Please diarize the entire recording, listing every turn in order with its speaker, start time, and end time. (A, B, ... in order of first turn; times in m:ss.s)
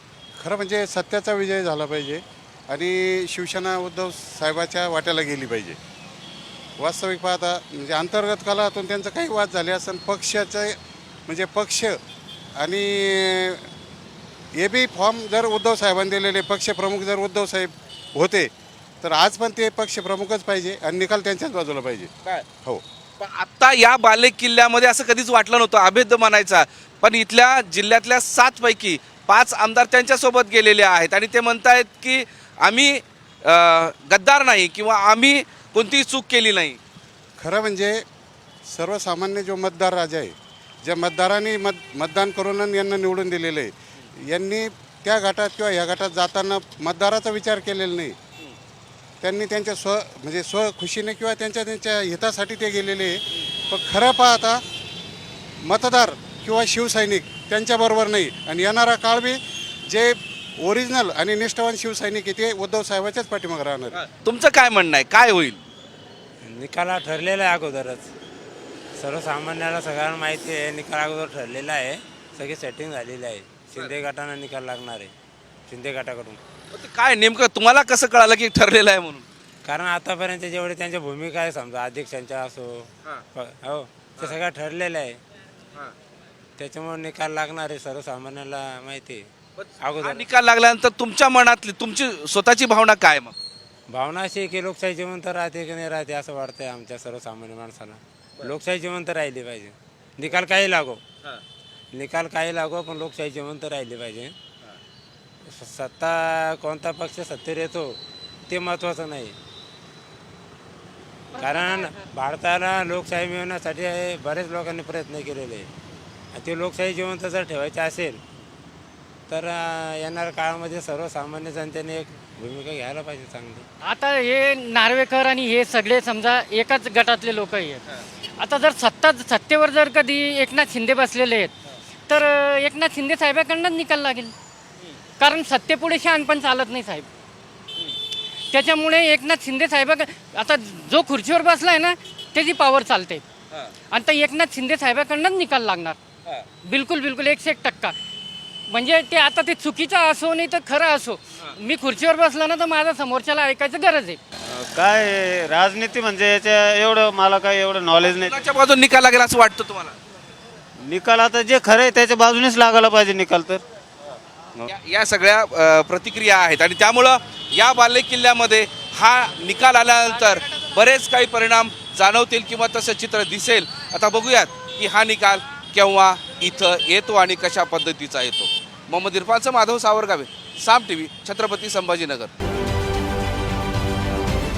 0:00.4-0:05.8 A
0:06.8-0:12.0 A
0:12.6-0:13.7 A
0:14.6-0:18.5 A
0:19.0-0:22.1 A
0:23.2-0:36.8 B
0:37.4-0:38.0 A
0:38.7-0:48.2 A
0:49.2-0:54.6 A
0:55.6-1:04.0 A
1:03.9-1:05.6 B
1:06.5-1:08.1 C
1:09.0-1:15.1 C
1:15.7-1:16.4 C
1:16.7-1:19.2 B
1:19.7-1:25.2 C
1:26.6-1:29.3 C
1:29.6-1:33.4 B
1:29.8-1:30.2 C
1:33.9-1:41.0 C
1:41.9-1:44.4 C
1:45.4-1:49.4 C
1:51.4-1:55.7 C
1:56.3-1:58.2 C
1:59.3-2:03.6 C
2:03.8-2:07.8 D
2:08.4-2:11.5 D
2:12.1-2:14.3 D
2:15.2-2:17.1 D
2:18.5-2:23.2 D
2:23.9-2:26.0 D
2:26.6-2:28.0 D
2:28.7-2:34.2 D
2:34.6-2:38.3 E
2:38.0-2:40.0 B
2:40.9-2:43.6 E
2:44.7-3:02.3 B